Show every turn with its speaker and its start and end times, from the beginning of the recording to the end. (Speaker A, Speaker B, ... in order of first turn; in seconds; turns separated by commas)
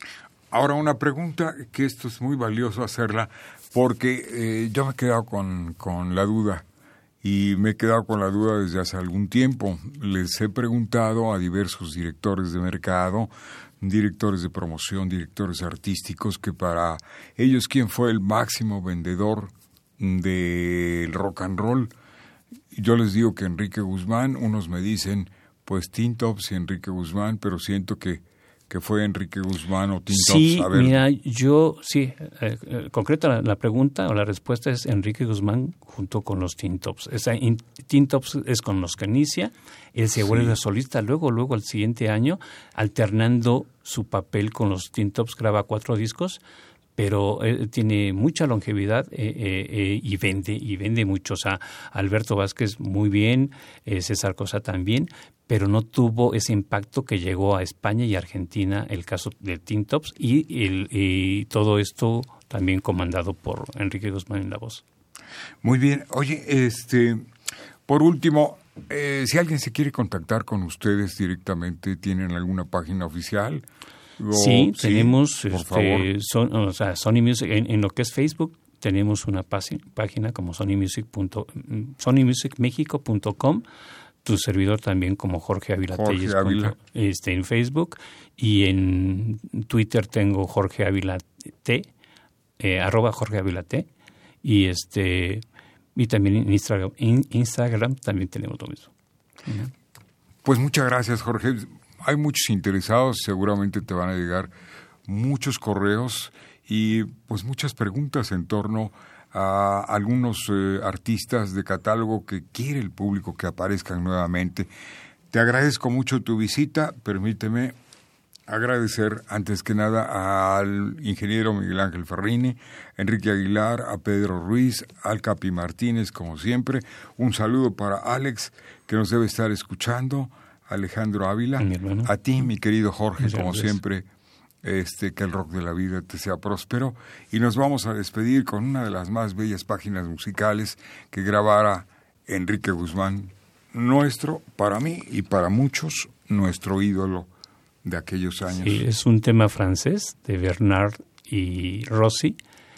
Speaker A: 0.5-6.6, Speaker A: 7.2-21.9, Speaker A: 22.7-31.0, Speaker B: 30.1-46.4, Speaker A: 40.2-40.5, Speaker B: 47.0-64.8, Speaker A: 65.6-67.2, Speaker A: 67.9-73.6, Speaker A: 74.2-76.1, Speaker B: 74.3-83.6, Speaker B: 84.2-91.9, Speaker A: 85.9-86.8, Speaker B: 92.6-93.9, Speaker B: 94.4-95.4, Speaker B: 95.9-98.9, Speaker B: 99.4-99.7, Speaker A: 100.4-104.5, Speaker A: 105.0-114.7, Speaker A: 115.3-117.8, Speaker A: 118.5-134.1, Speaker B: 131.6-132.1, Speaker B: 133.2-133.8, Speaker A: 134.6-147.3, Speaker A: 147.8-148.8, Speaker B: 148.5-152.4